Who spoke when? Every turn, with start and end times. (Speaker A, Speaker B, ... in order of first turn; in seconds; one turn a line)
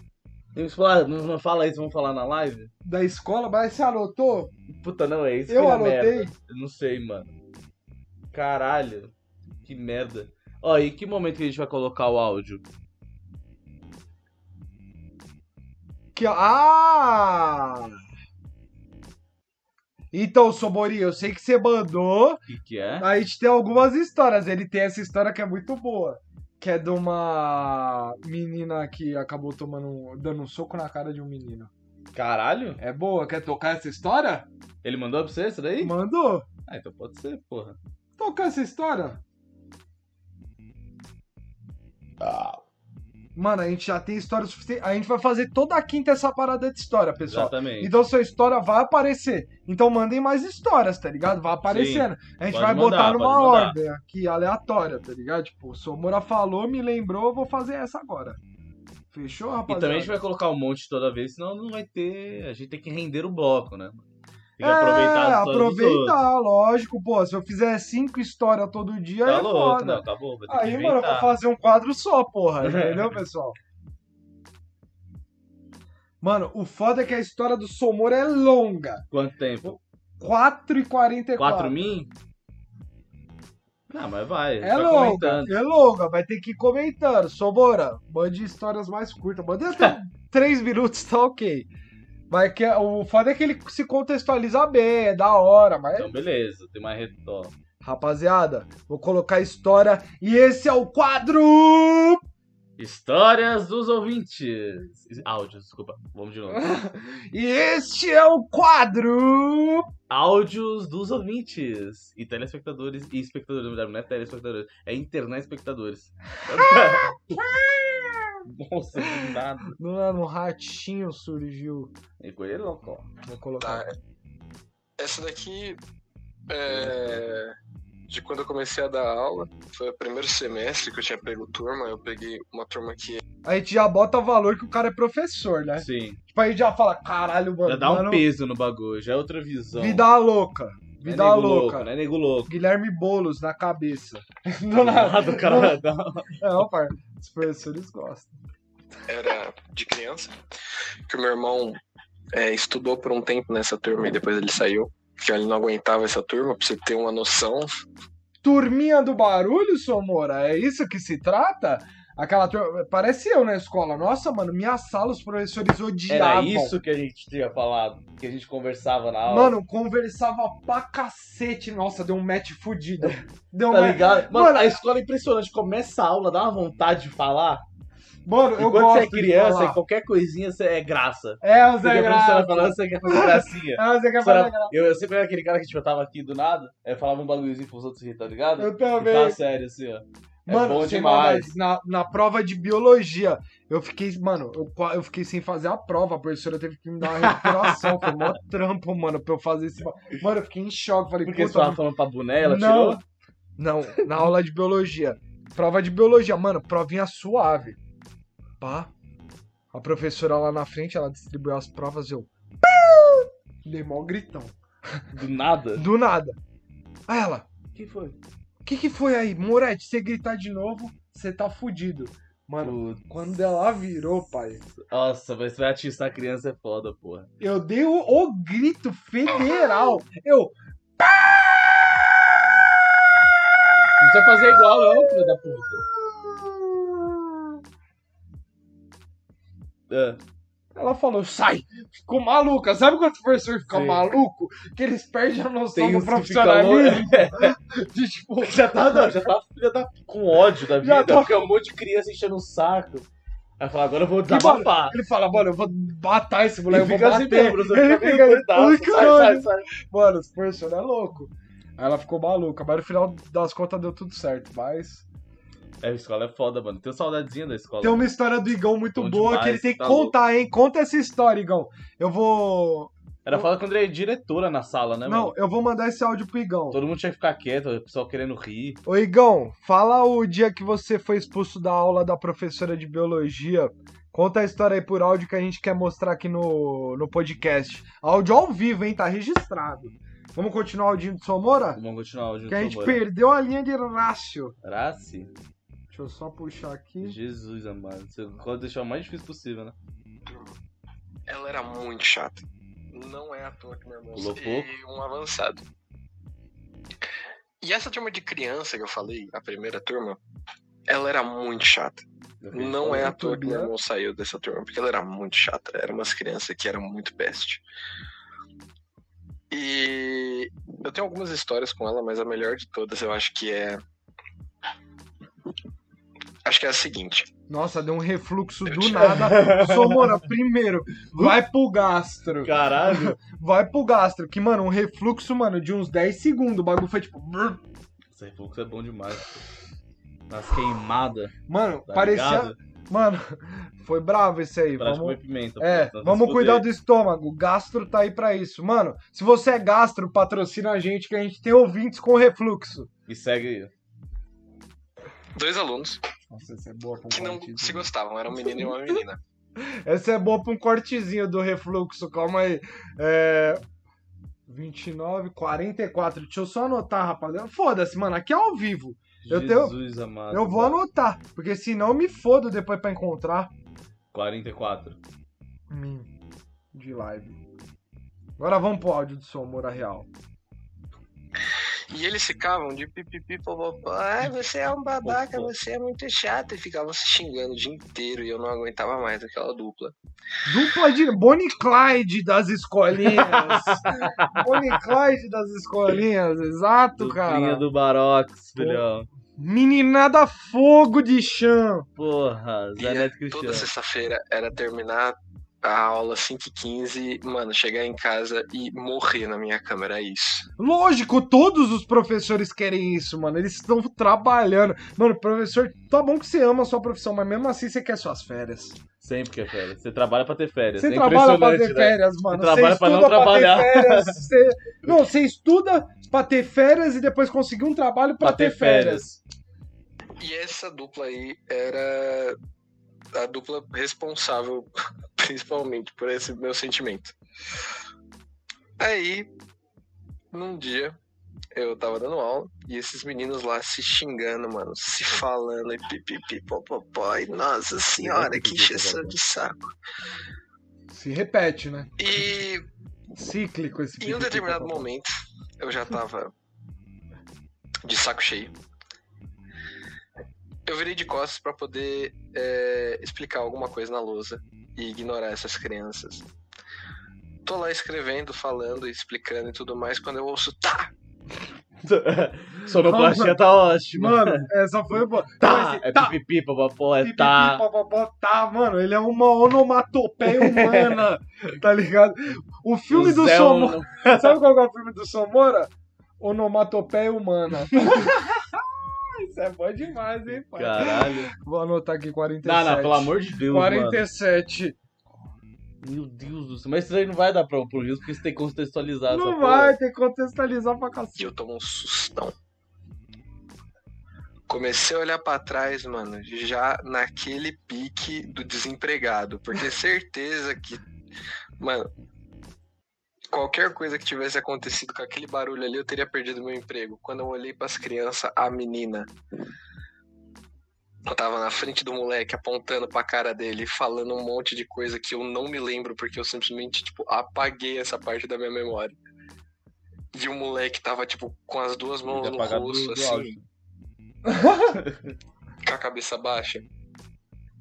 Speaker A: 0.5-2.7
Speaker B: 2.8-4.5
Speaker A: 4.7-7.3
Speaker B: 5.5-6.3
Speaker A: 8.3-9.1
Speaker A: 9.6-12.6
Speaker B: 16.1-18.0
Speaker B: 20.1-22.4
Speaker A: 22.5-23.1
Speaker B: 23.0-31.7
Speaker A: 32.1-32.8
Speaker B: 32.8-34.5
Speaker A: 34.8-36.0
Speaker B: 35.8-36.5
Speaker A: 36.7-37.8
Speaker B: 38.2-39.2
Speaker A: 42.2-42.6
Speaker B: 43.3-58.4
Speaker A: 47.3-47.9
Speaker A: 51.6-53.8
Speaker B: 59.1-60.2
Speaker A: 59.7-64.0
Speaker A: 64.6-66.2
Speaker B: 64.6-73.5
Speaker A: 69.2-71.3
Speaker A: 72.6-73.2
Speaker B: 76.2-79.0
Speaker A: 79.1-79.8
Speaker B: 79.6-81.8
Speaker A: 81.4-82.1
Speaker A: 83.9-85.6
Speaker B: 84.6-91.7
Speaker B: 92.3-96.1
Speaker A: 95.9-97.5
Speaker B: 97.8-102.2
Speaker A: 102.8-106.7
Speaker B: 106.5-109.9
Speaker A: 110.1-117.2
Speaker B: 116.5-118.4
Speaker A: 118.5-119.8
Speaker B: 119.0-121.9
Speaker A: 122.2-123.1
Speaker B: 123.2-123.9
Speaker C: 123.6-124.0
Speaker C: 125.0-125.8
Speaker C: 126.5-127.5
Speaker A: 126.7-127.4
Speaker C: 128.1-133.2
Speaker B: 133.4-138.2
Speaker A: 135.8-136.2
Speaker A: 137.7-140.0
Speaker B: 139.8-141.9
Speaker A: 141.0-142.5
Speaker B: 142.5-145.8
Speaker A: 144.7-146.4
Speaker B: 146.4-148.4
Speaker C: 149.1-150.3
Speaker C: 151.1-151.8
Speaker C: 152.3-157.8
Speaker B: 158.4-166.8
Speaker A: 166.1-169.6
Speaker B: 169.3-174.8
Speaker A: 173.7-177.6
Speaker B: 178.2-179.8
Speaker A: 178.6-191.5
Speaker B: 181.4-184.7
Speaker B: 188.6-189.4
Speaker B: 190.5-201.8
Speaker A: 197.1-198.3
Speaker A: 201.2-203.0
Speaker B: 202.4-203.0
Speaker B: 203.6-207.8
Speaker B: 208.6-208.9
Speaker B: 209.7-215.0
Speaker A: 215.1-215.8
Speaker B: 215.8-216.4
Speaker B: 217.1-217.5
Speaker A: 217.7-218.2
Speaker B: 218.6-224.6
Speaker A: 222.6-223.1
Speaker A: 224.7-227.3
Speaker B: 227.4-232.7
Speaker A: 234.0-235.9
Speaker B: 234.0-237.6
Speaker A: 239.9-240.2
Speaker B: 240.7-249.2
Speaker A: 243.7-244.1
Speaker A: 245.7-247.6
Speaker A: 248.4-253.1
Speaker B: 250.8-251.4
Speaker A: 253.6-255.0
Speaker B: 254.3-265.1
Speaker A: 256.7-259.7
Speaker A: 265.8-268.1
Speaker B: 267.8-273.4
Speaker A: 268.9-270.1
Speaker A: 273.2-275.3
Speaker B: 275.1-276.8
Speaker A: 276.7-278.8
Speaker B: 278.8-291.8
Speaker A: 291.7-293.0
Speaker B: 292.5-294.6
Speaker A: 294.6-295.3
Speaker B: 295.9-297.2
Speaker A: 297.0-299.7
Speaker C: 300.2-300.6
Speaker C: 301.3-305.6
Speaker A: 304.1-304.7
Speaker C: 307.6-310.2
Speaker C: 310.9-317.6
Speaker A: 312.4-313.1
Speaker B: 312.8-313.7
Speaker C: 319.5-323.8
Speaker C: 326.4-327.3
Speaker B: 327.5-337.6
Speaker C: 328.7-329.1
Speaker A: 329.0-330.3
Speaker A: 331.1-331.4
Speaker A: 332.4-333.2
Speaker A: 338.1-339.4
Speaker A: 340.3-341.3
Speaker B: 341.5-352.9
Speaker A: 341.9-342.5
Speaker A: 344.8-346.7
Speaker A: 353.1-353.7
Speaker C: 355.4-356.0
Speaker B: 356.3-359.0
Speaker C: 357.1-359.2
Speaker B: 359.6-363.6
Speaker B: 364.5-369.8
Speaker A: 369.2-370.8
Speaker B: 370.3-373.5
Speaker A: 374.1-375.0
Speaker B: 375.7-376.1
Speaker B: 376.7-377.4
Speaker B: 378.4-380.1
Speaker C: 381.9-389.9
Speaker A: 385.0-385.5
Speaker B: 390.4-397.6
Speaker A: 393.0-394.8
Speaker A: 397.0-399.1
Speaker B: 398.6-398.8
Speaker B: 399.4-401.9
Speaker A: 402.0-403.7
Speaker C: 402.8-410.5
Speaker B: 410.6-418.8
Speaker A: 419.0-424.3
Speaker B: 420.8-429.0
Speaker A: 428.2-429.2
Speaker C: 430.2-432.4
Speaker C: 433.1-437.1
Speaker C: 438.8-439.3
Speaker C: 440.3-440.9
Speaker C: 441.5-449.7
Speaker A: 448.0-449.2
Speaker B: 450.9-451.9
Speaker C: 452.0-452.6
Speaker B: 453.1-454.9
Speaker C: 454.0-456.3
Speaker C: 457.8-458.5
Speaker C: 460.6-466.2
Speaker C: 467.4-470.9
Speaker A: 471.8-474.5
Speaker B: 472.8-473.4
Speaker B: 473.9-476.1
Speaker A: 475.4-477.6
Speaker B: 477.0-494.8
Speaker A: 480.2-481.0
Speaker A: 482.9-484.4
Speaker A: 487.8-488.1
Speaker A: 490.5-491.3
Speaker A: 492.4-494.0
Speaker A: 495.8-499.8
Speaker B: 499.1-501.3
Speaker C: 501.2-502.3
Speaker C: 504.5-510.8
Speaker C: 511.6-511.9
Speaker C: 513.3-519.1
Speaker C: 521.0-528.9
Speaker C: 530.1-533.3
Speaker A: 532.0-533.5
Speaker B: 534.2-534.8
Speaker A: 534.7-535.1
Speaker C: 535.6-536.7